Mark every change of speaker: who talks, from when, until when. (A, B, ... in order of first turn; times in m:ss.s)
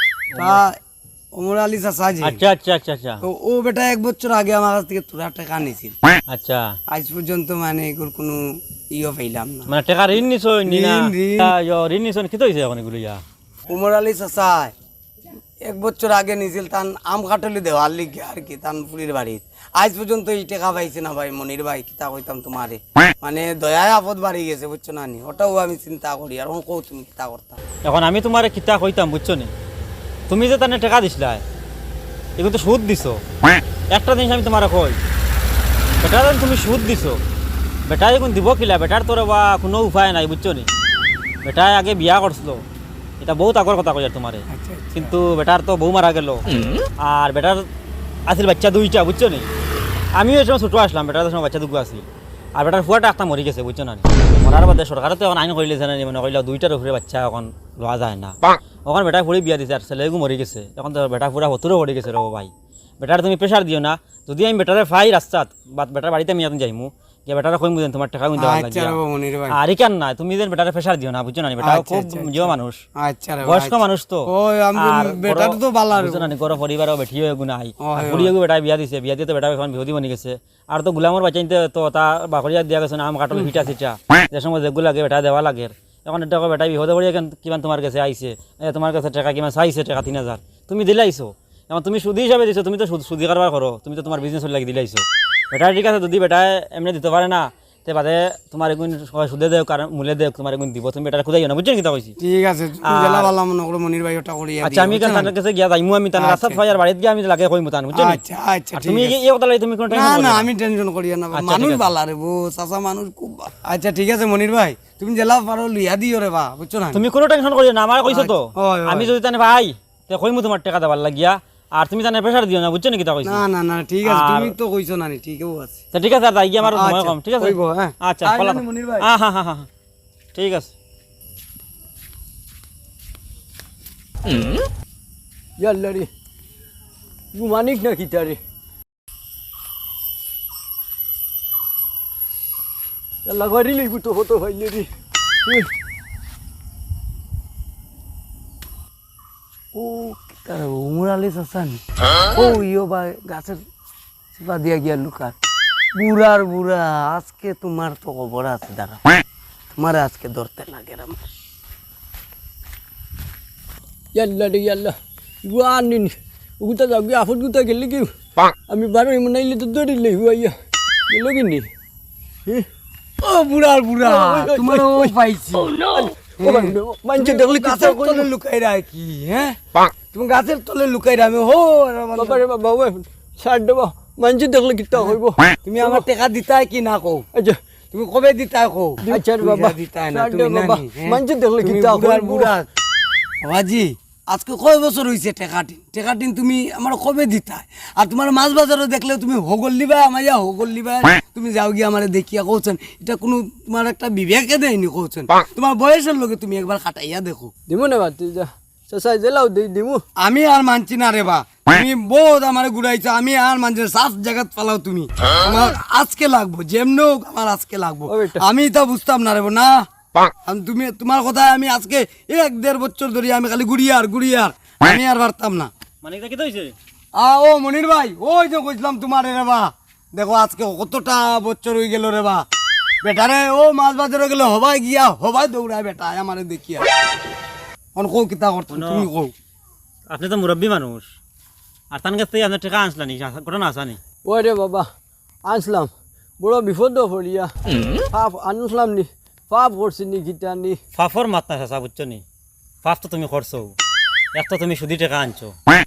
0:00.4-0:00.6 A
0:00.4-0:00.8 B
0:01.3-0:02.4 B
0:02.2-0:03.2 A
0:03.2-0:06.0 B
0:06.3-0:06.7 A
0:06.9-0:09.7 B
0:09.7-0:13.2 A
0:10.7-0:11.5 B
0:13.7-0:14.7 B
0:15.6-0:27.6 B
0:27.8-0:29.5 A
0:30.3-0:31.4 A
0:32.4-0:33.2 A
0:33.9-0:35.0 A
0:36.0-0:37.2 A
0:37.9-0:40.7 A
0:41.4-0:42.6 A
0:43.2-0:46.4 A
0:44.5-0:45.1 B
0:47.0-0:47.6 A
0:48.3-0:49.5 A
0:50.2-0:52.1 A
0:52.6-1:09.0 A
1:08.4-1:09.6 B
1:09.5-1:12.8 A
1:11.6-1:16.3 B
1:13.4-1:14.3 A
1:14.8-1:42.2 A
1:17.8-1:18.3 B
1:42.2-1:45.3 B
1:42.9-1:43.3 A
1:44.6-1:48.2 A
1:46.2-1:46.6 B
1:47.9-1:49.2 B
1:48.8-1:50.5 A
1:49.9-1:57.0 B
1:51.4-1:51.9 A
1:56.9-2:03.4 A
1:58.1-1:59.1 B
2:03.2-2:05.8 B
2:04.0-2:04.5 A
2:05.9-2:09.7 A
2:06.6-2:09.1 B
2:10.4-2:10.7 A
2:15.6-2:16.1 C
2:17.3-2:18.4 C
2:23.3-2:24.9 C
2:29.7-2:31.8 B
2:32.4-2:33.6 B
2:34.4-2:35.3 B
2:36.0-2:39.0 B
2:39.8-2:41.2 B
2:44.2-2:48.1 C
2:48.7-2:50.5 C
2:51.1-2:51.7 C
2:53.2-2:55.7 B
2:54.0-2:55.1 C
2:55.7-2:58.3 C
2:56.4-3:02.4 B
3:02.2-3:06.0 C
3:05.7-3:07.3 B
3:07.9-3:12.6 B
3:09.1-3:12.5 C
3:13.4-3:27.5 B
3:27.7-3:30.0 C
3:30.2-3:39.8 B
3:38.1-3:38.4 C
3:40.4-3:45.7 B
3:46.0-3:46.8 A
3:47.2-3:52.4 B
3:53.0-3:56.9 B
3:58.0-3:59.3 B
3:58.7-3:59.1 A
4:00.1-4:01.1 A
4:01.9-4:04.0 A
4:04.2-4:04.9 C
4:05.5-4:07.5 C
4:08.1-4:10.8 C
4:11.0-4:12.2 A
4:12.8-4:13.7 A
4:14.4-4:15.5 A